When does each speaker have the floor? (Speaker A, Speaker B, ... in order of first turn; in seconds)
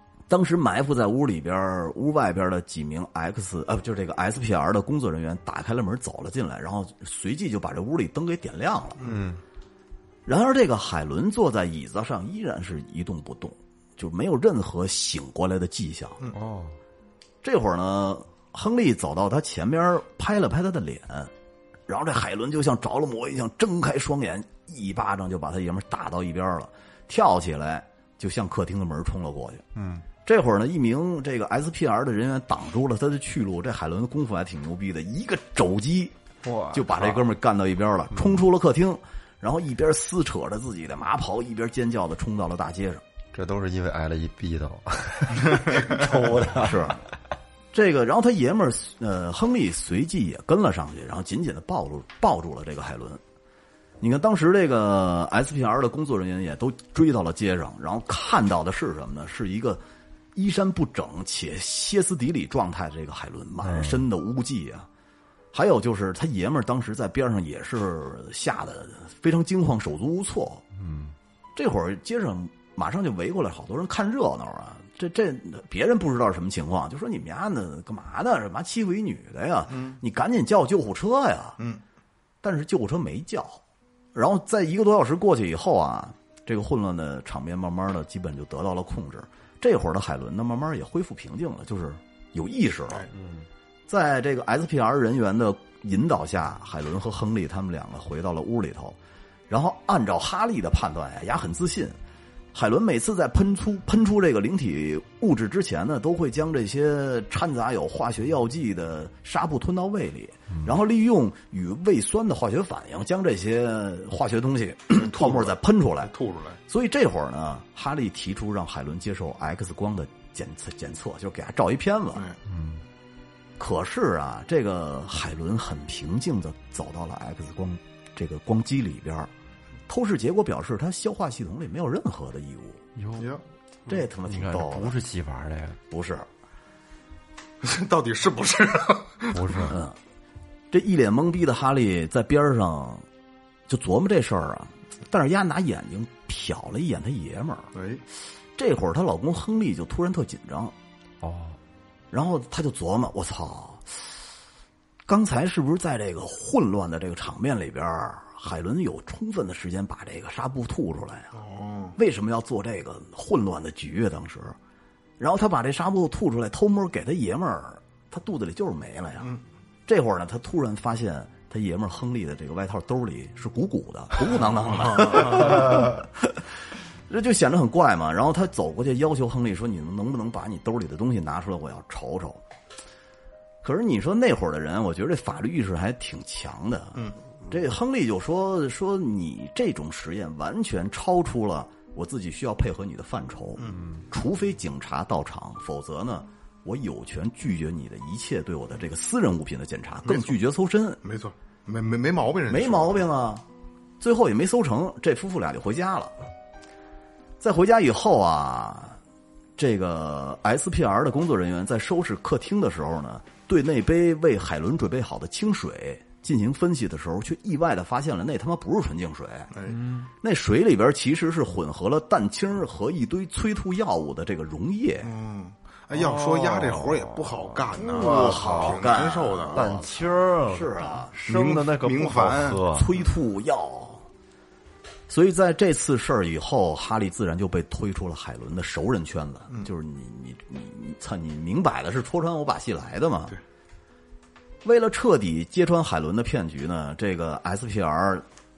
Speaker A: 0.3-9.0, 10.2-16.2, 17.4-21.3, 21.9-29.6, 30.2-36.1, 36.7-43.0, 46.4-47.0, 47.7-53.2, 54.0-59.8, 60.3-64.9, 65.5-70.6, 71.5-81.6, 82.4-83.6, 84.1-93.1, 93.9-99.0, 99.5-102.0, 102.5-116.1, 116.7-122.3, 123.6-129.3, 129.9-132.8, 133.9-135.0, 135.9-136.3, 139.7-140.0, 140.7-143.0, 143.7-147.7, 148.6-150.7, 152.1-154.1, 155.1-161.3, 161.9-164.6, 165.2-176.5, 177.1-182.4, 183.6-201.0, 202.5-203.4, 204.0-206.2, 207.4-209.0, 209.6-219.5, 220.2-225.1, 227.7-231.1, 232.7-234.1, 235.1-243.3, 244.6-248.2
Speaker B: 9.0-9.4, 16.3-16.7, 29.7-30.0, 36.4-37.2, 43.3-46.9, 63.6-64.0, 70.8-71.1, 93.1-93.5, 122.5-122.8, 132.9-133.3, 133.9-135.8, 139.3-139.8, 151.2-151.6, 219.7-220.1, 225.9-228.8, 229.5-232.9
Speaker C: 79.7-80.0, 115.0-116.6, 137.6-139.4, 147.7-148.0, 161.3-161.9, 175.0-175.3, 200.1-200.3, 201.0-203.0, 219.5-219.8, 225.0-229.7, 231.2-232.7